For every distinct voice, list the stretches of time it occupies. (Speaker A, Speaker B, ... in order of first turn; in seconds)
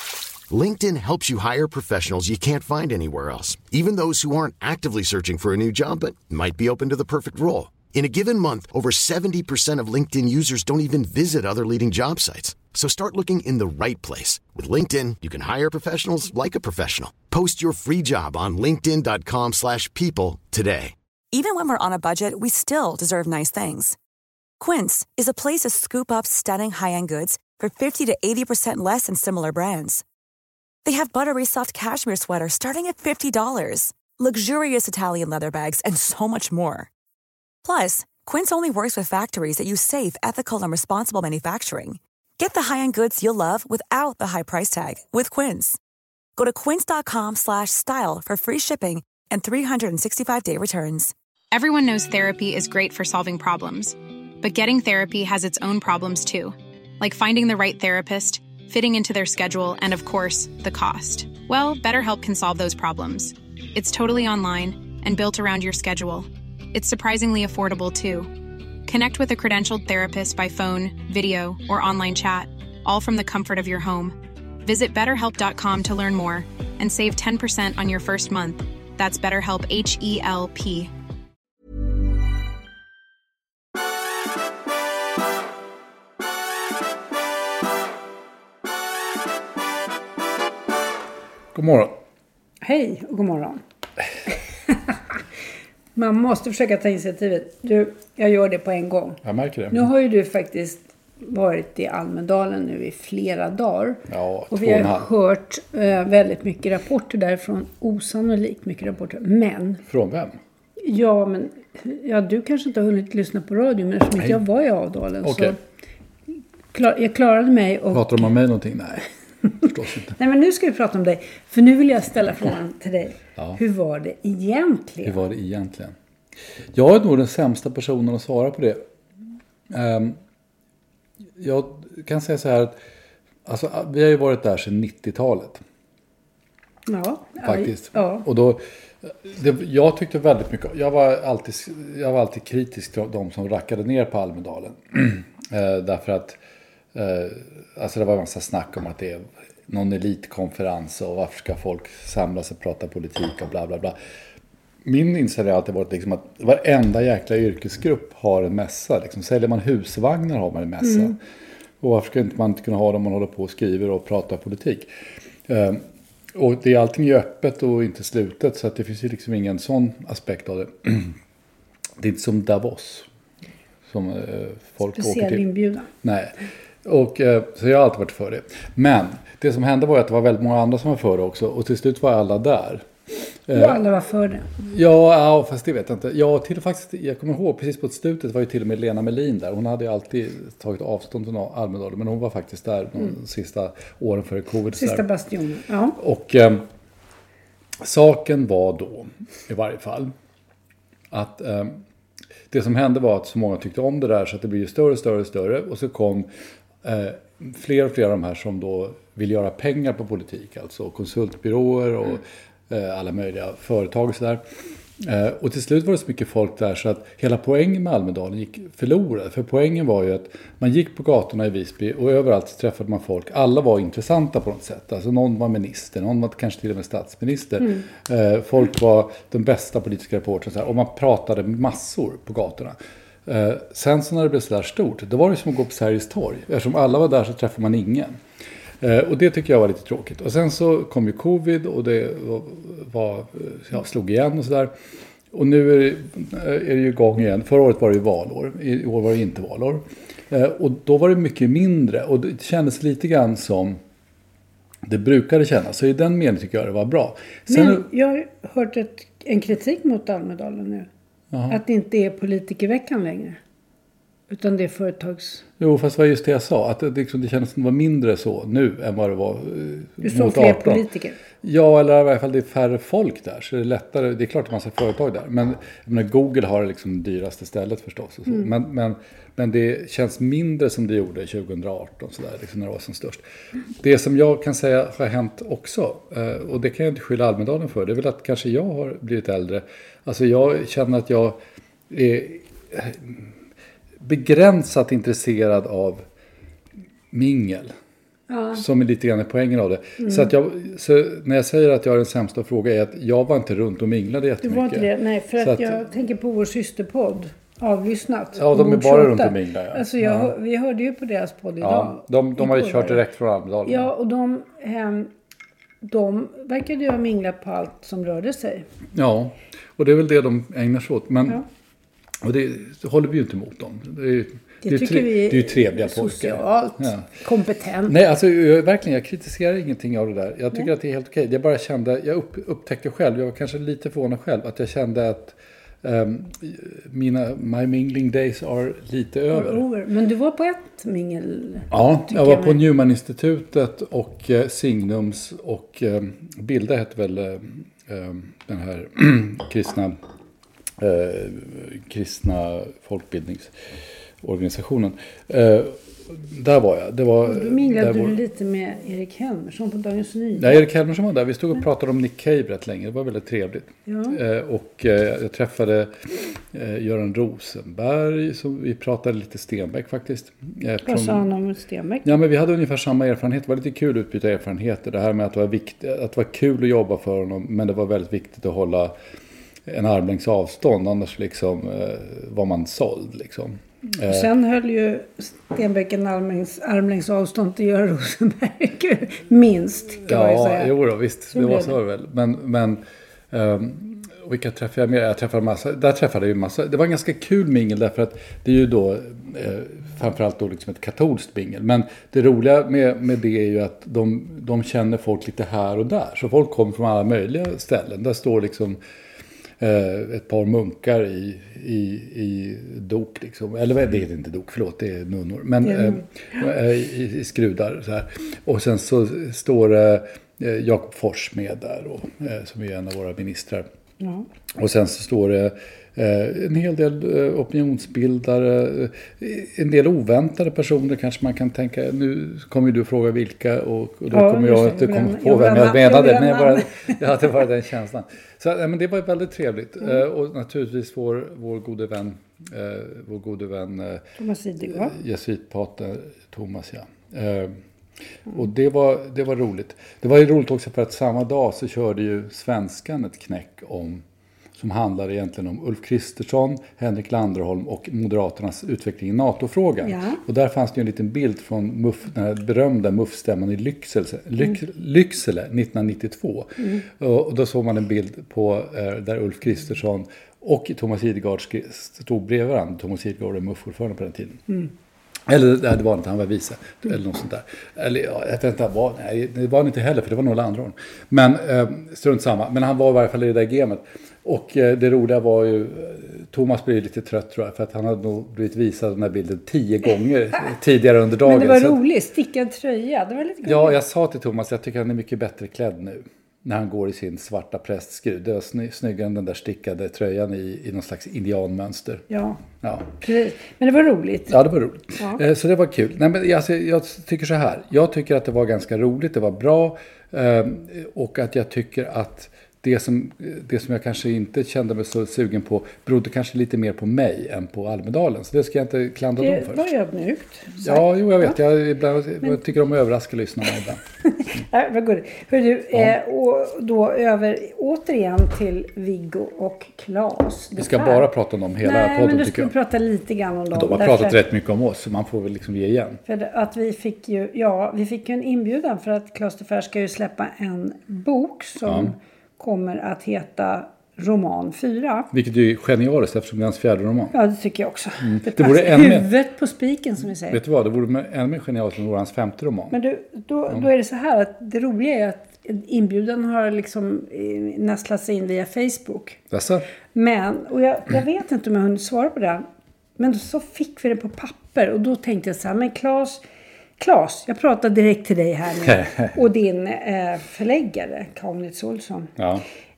Speaker A: 0.5-20.9
Speaker B: 21.3-24.0, 24.6-30.0, 30.8-36.9, 37.6-45.8, 46.4-51.1
Speaker C: 51.5-68.3, 68.8-80.9
Speaker D: 91.5-92.0, 99.2-99.9, 104.1-105.1, 109.9-110.4, 115.2-115.5, 117.9-120.2, 125.0-126.0, 126.7-128.8, 129.7-130.2, 131.4-132.8, 133.4-135.6, 137.4-146.4, 146.9-153.9, 154.8-161.2, 161.8-164.9, 165.5-171.1, 172.0-173.1, 173.9-175.4, 176.0-182.8, 183.5-183.8, 184.6-195.0, 196.0-196.7, 197.8-200.1, 201.1-201.8, 202.5-206.3, 206.8-214.4, 215.0-238.2, 238.8-244.7, 245.3-253.8, 254.8-257.8, 261.3-261.6, 265.6-270.9, 271.4-283.2, 283.8-291.4, 291.9-293.3, 294.0-296.0, 297.1-297.7, 298.5-305.8, 308.3-310.3, 311.6-313.9, 318.9-321.4, 322.2-327.1, 327.9-339.6, 341.7-350.0, 350.8-353.5, 354.2-358.2, 360.4-371.3, 372.0-378.9, 379.6-384.3, 390.0-408.8, 409.6-423.6, 424.5-444.1, 444.7-447.6, 448.3-454.0, 454.6-474.4, 475.3-491.8, 493.4-502.9, 504.3-519.7, 520.6-523.8, 530.5-532.5, 533.5-536.0, 541.6-541.9, 545.1-547.1, 548.0-549.1, 550.3-552.8, 559.3-559.6, 568.6-569.2, 572.2-572.4
Speaker E: 92.6-93.6, 94.7-95.0, 95.9-109.8, 110.8-115.6, 116.7-118.3, 120.2-125.2, 136.9-138.2, 174.9-175.9, 183.5-184.5, 194.7-196.0, 257.5-260.9, 261.5-263.4, 264.3-265.4, 270.0-271.2, 298.3-298.6, 300.0-300.3, 304.4-313.0, 313.6-315.1, 315.8-318.6, 324.6-327.9, 339.3-342.6, 357.2-360.6, 363.9-364.2, 370.8-372.1, 384.0-390.7, 391.3-391.7, 415.6-416.4, 424.0-424.3, 434.1-437.0, 444.2-445.0, 459.8-460.2, 466.6-466.8, 491.2-493.8, 502.1-502.4, 503.0-504.4, 519.2-521.4, 524.0-531.1, 531.6-534.2, 536.0-545.1, 547.1-550.4, 552.7-559.2, 559.9-562.5, 563.0-566.2, 566.8-572.1